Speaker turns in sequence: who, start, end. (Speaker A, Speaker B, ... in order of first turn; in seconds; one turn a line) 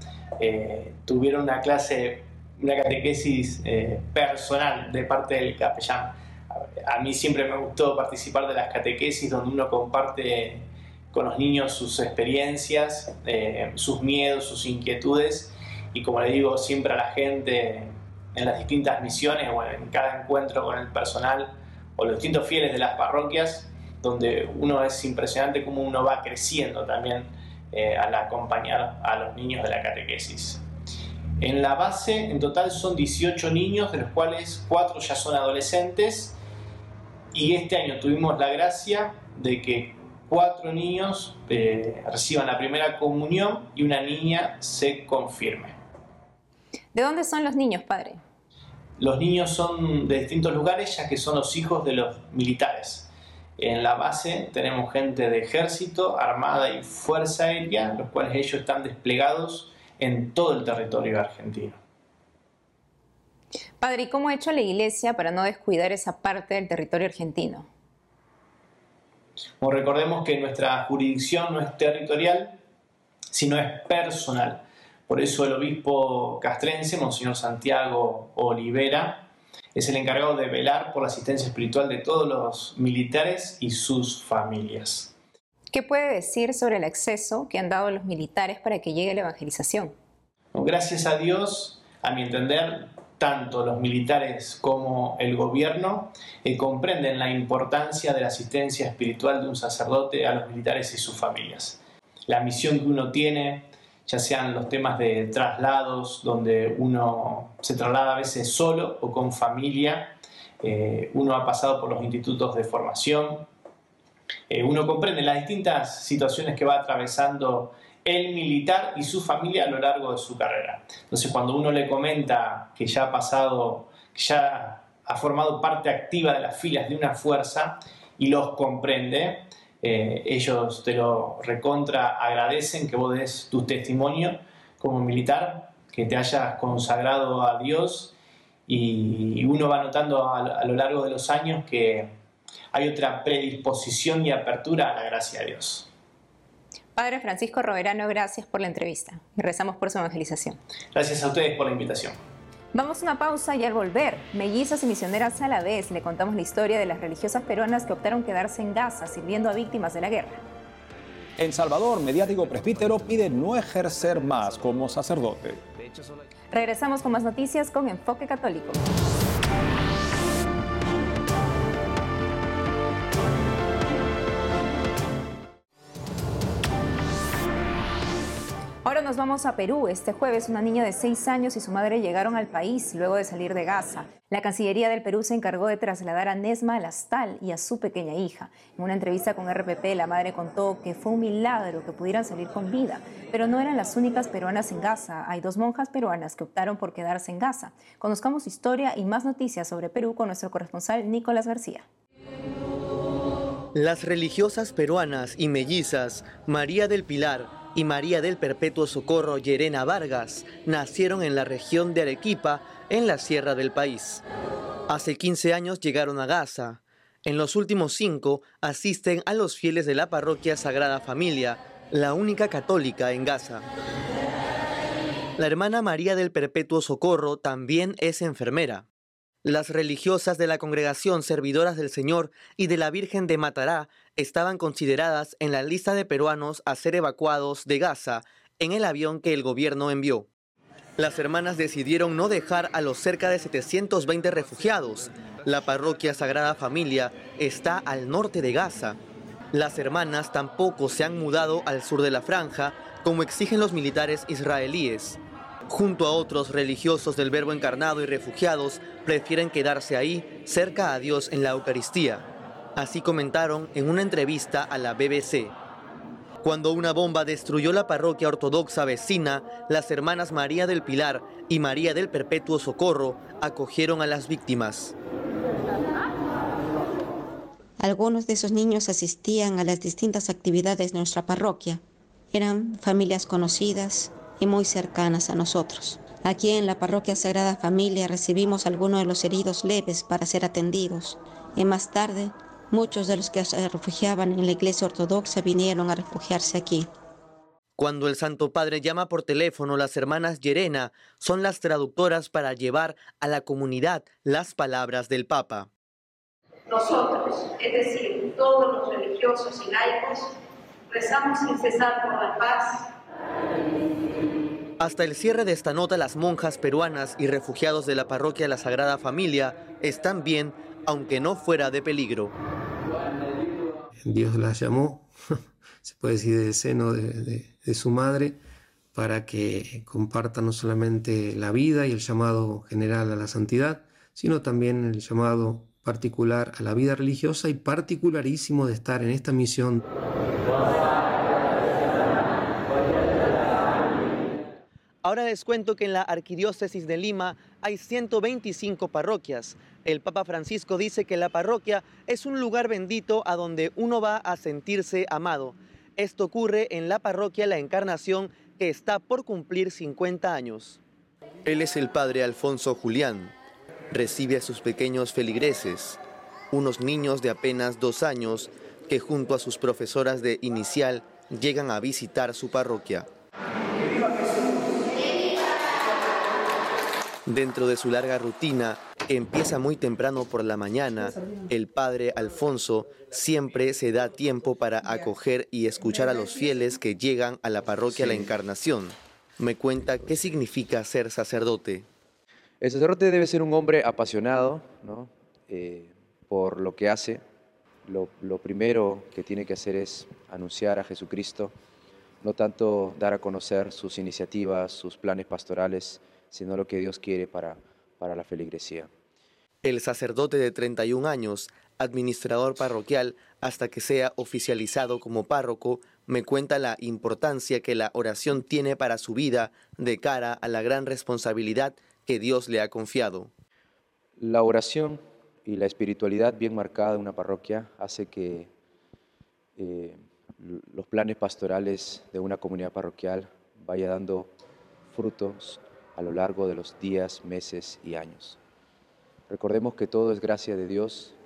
Speaker A: 0.4-30.6
Speaker A: 31.4-36.4
Speaker A: 37.3-45.7
Speaker B: 46.9-48.2
Speaker A: 49.0-61.8
Speaker B: 63.8-67.7
Speaker A: 69.6-72.6
Speaker A: 73.3-85.1
Speaker B: 85.7-89.9
Speaker A: 90.5-113.5
Speaker A: 114.5-138.1
Speaker A: 138.7-142.1
Speaker A: 142.7-145.9
Speaker B: 146.9-150.6
Speaker A: 150.9-152.2
Speaker B: 152.7-160.4
Speaker C: 161.4-165.6
Speaker B: 166.5-168.8
Speaker B: 178.8-201.8
Speaker D: 203.7-214.2
Speaker D: 214.9-223.7
Speaker D: 225.4-228.8
Speaker D: 229.4-240.3
Speaker D: 241.0-249.0
Speaker D: 249.5-265.5
Speaker D: 266.4-274.9
Speaker E: 277.8-296.9
Speaker D: 297.8-305.7
Speaker F: 306.7-310.4
Speaker F: 310.9-312.9
Speaker D: 314.8-322.3
Speaker G: 324.0-325.1
Speaker G: 325.8-328.4
Speaker G: 328.9-339.9
Speaker D: 345.0-360.8
Speaker D: 361.4-363.3
Speaker D: 363.9-366.0
Speaker D: 366.5-373.1
Speaker D: 377.2-391.9
Speaker H: 392.6-397.2
Speaker H: 397.9-401.5
Speaker H: 402.2-408.9
Speaker D: 409.6-423.3
Speaker H: 424.2-428.5
Speaker H: 429.6-434.3
Speaker H: 434.9-438.4
Speaker H: 439.3-441.2